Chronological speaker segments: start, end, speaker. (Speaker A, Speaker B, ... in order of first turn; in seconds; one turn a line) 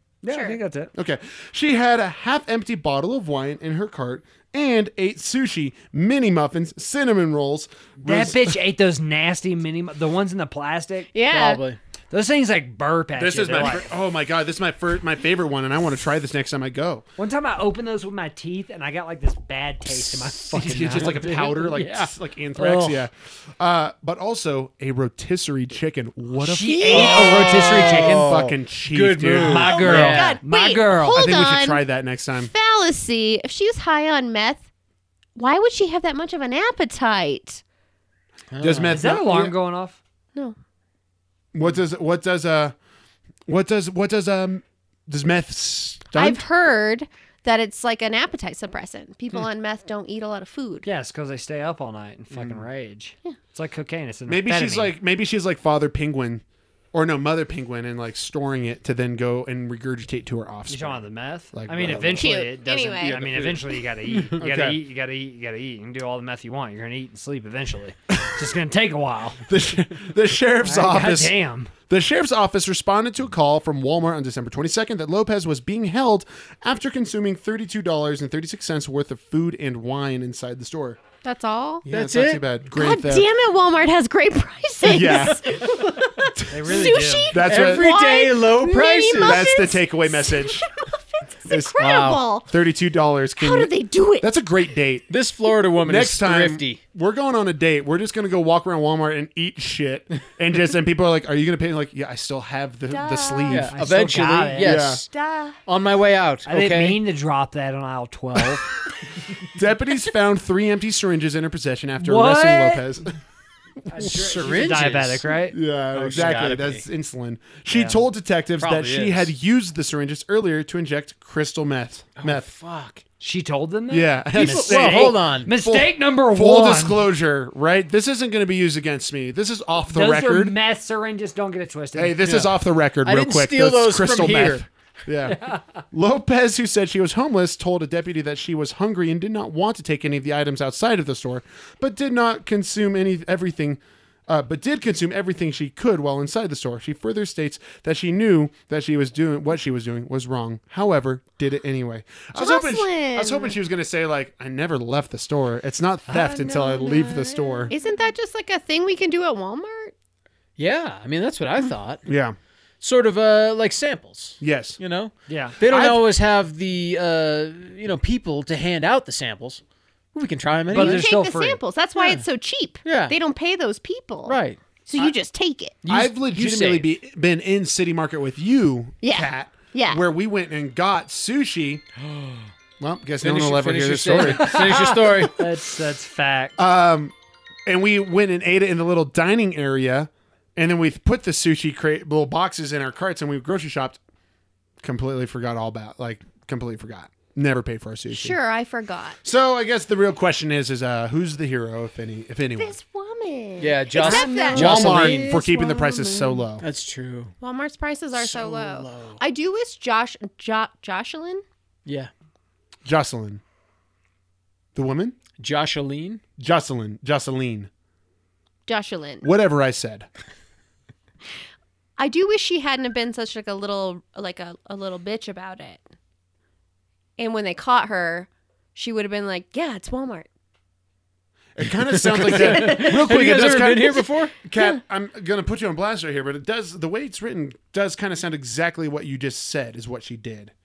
Speaker A: 0.2-0.9
Speaker B: 0.3-0.6
Speaker C: 0.9-8.6
Speaker A: 8.0-11.1
Speaker B: 11.1-11.6
Speaker D: 11.3-11.8
Speaker A: 12.1-13.9
Speaker C: 13.2-17.1
Speaker A: 17.2-23.1
Speaker D: 19.9-21.1
Speaker C: 20.6-29.9
Speaker A: 26.4-28.3
Speaker B: 26.7-27.2
Speaker D: 26.9-30.4
Speaker A: 29.4-31.2
Speaker B: 29.8-31.9
Speaker C: 31.1-32.5
Speaker B: 32.4-34.7
Speaker B: 35.4-37.6
Speaker D: 38.5-39.0
Speaker C: 38.6-39.5
Speaker A: 38.9-40.0
Speaker C: 41.5-42.8
Speaker C: 43.5-46.4
Speaker B: 46.1-50.9
Speaker A: 50.8-55.0
Speaker C: 52.3-52.7
Speaker C: 54.3-62.4
Speaker A: 60.7-69.4
Speaker B: 62.1-63.2
Speaker C: 63.0-63.6
Speaker D: 64.1-64.8
Speaker C: 64.4-64.7
Speaker C: 69.5-71.4
Speaker A: 70.6-71.7
Speaker C: 71.9-81.0
Speaker B: 81.2-81.9
Speaker D: 81.9-82.4
Speaker C: 81.9-83.3
Speaker B: 82.7-92.5
Speaker C: 84.8-85.5
Speaker C: 86.5-87.9
Speaker A: 86.5-87.3
Speaker D: 87.4-89.5
Speaker C: 89.2-90.7
Speaker C: 91.5-91.9
Speaker D: 91.8-92.2
Speaker C: 92.5-95.1
Speaker B: 93.4-94.3
Speaker D: 95.1-96.8
Speaker C: 95.8-103.7
Speaker B: 102.9-103.7
Speaker D: 103.5-105.1
Speaker A: 103.7-104.8
Speaker C: 104.6-105.0
Speaker B: 105.1-105.6
Speaker D: 105.7-107.0
Speaker A: 106.5-108.7
Speaker C: 109.5-113.2
Speaker A: 112.0-112.8
Speaker C: 113.9-114.3
Speaker A: 113.9-115.6
Speaker D: 114.0-115.2
Speaker C: 115.5-122.5
Speaker D: 115.9-116.8
Speaker A: 117.7-118.0
Speaker D: 118.6-119.3
Speaker D: 122.2-123.0
Speaker A: 123.2-127.0
Speaker C: 123.9-130.6
Speaker D: 124.3-125.5
Speaker A: 129.9-132.6
Speaker C: 131.9-135.4
Speaker D: 133.1-134.7
Speaker A: 135.3-135.6
Speaker C: 135.9-157.7
Speaker B: 152.4-153.6
Speaker B: 156.1-159.9
Speaker D: 160.6-162.0
Speaker C: 162.1-162.3
Speaker D: 162.8-169.6
Speaker C: 164.4-164.8
Speaker A: 165.3-165.6
Speaker C: 165.7-166.0
Speaker D: 170.1-171.1
Speaker B: 170.7-175.8
Speaker A: 170.7-171.6
Speaker D: 172.0-172.2
Speaker D: 172.8-173.2
Speaker D: 174.3-175.1
Speaker D: 175.8-176.9
Speaker C: 175.9-181.8
Speaker B: 179.0-180.0
Speaker D: 182.1-182.5
Speaker C: 182.8-184.7
Speaker D: 183.2-185.4
Speaker A: 184.2-186.6
Speaker C: 186.6-187.1
Speaker C: 187.7-194.0
Speaker C: 194.8-198.4
Speaker B: 198.1-199.2
Speaker C: 199.2-202.8
Speaker B: 202.6-206.5
Speaker D: 203.6-205.4
Speaker C: 204.0-206.7
Speaker D: 206.6-207.3
Speaker B: 207.4-211.4
Speaker D: 208.2-209.2
Speaker C: 212.8-213.4
Speaker C: 214.8-215.2
Speaker D: 215.4-216.2
Speaker C: 216.4-217.7
Speaker B: 218.7-219.3
Speaker C: 219.2-220.1
Speaker B: 222.0-225.8
Speaker B: 227.2-230.3
Speaker C: 231.6-240.5
Speaker D: 231.8-234.4
Speaker B: 232.3-233.0